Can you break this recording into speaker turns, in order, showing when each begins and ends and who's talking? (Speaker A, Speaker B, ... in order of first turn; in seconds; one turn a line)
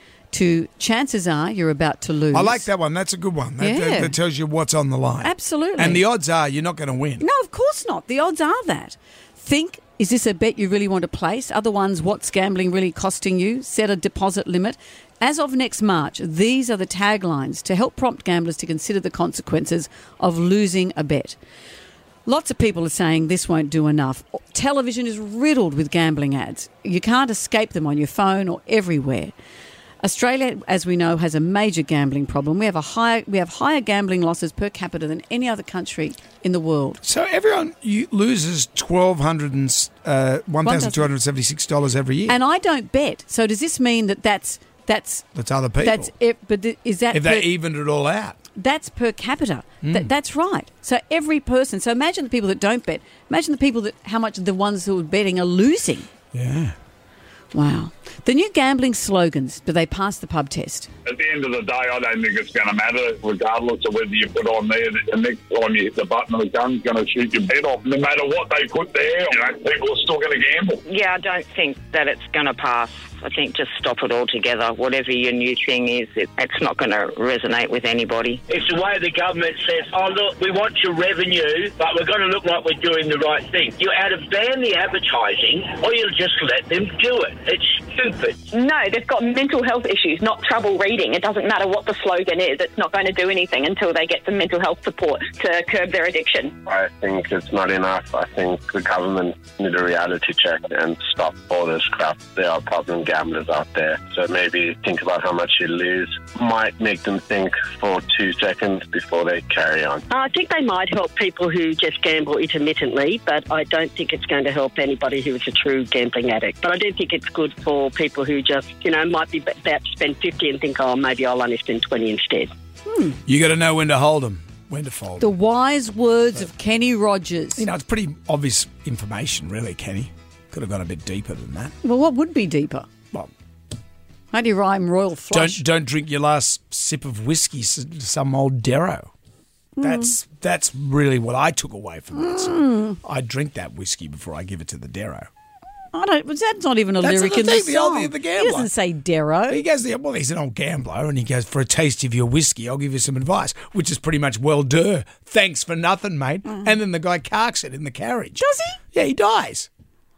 Speaker A: 0.3-2.7
Speaker B: 2.3-7.2
Speaker A: 3.6-4.1
Speaker A: 5.2-6.0
Speaker A: 7.2-21.4
Speaker A: 22.2-29.3
Speaker A: 30.0-37.0
Speaker B: 37.0-42.4
Speaker A: 40.6-41.1
Speaker A: 42.3-47.5
Speaker B: 45.3-46.1
Speaker B: 47.1-48.4
Speaker A: 48.5-56.1
Speaker B: 56.3-56.7
Speaker A: 57.5-60.9
Speaker C: 61.0-70.8
Speaker D: 70.9-78.4
Speaker E: 78.5-88.4
Speaker F: 88.5-96.5
Speaker G: 96.7-110.0
Speaker H: 110.1-122.5
Speaker A: 122.9-123.2
Speaker B: 123.2-125.3
Speaker A: 125.2-127.6
Speaker B: 127.5-131.7
Speaker A: 131.8-132.9
Speaker A: 134.3-135.6
Speaker B: 135.3-139.1
Speaker A: 139.8-140.1
Speaker B: 139.8-145.3
Speaker A: 142.2-142.9
Speaker A: 145.9-149.6
Speaker B: 147.0-148.7
Speaker B: 149.5-158.4
Speaker A: 158.4-158.8
Speaker B: 158.9-159.7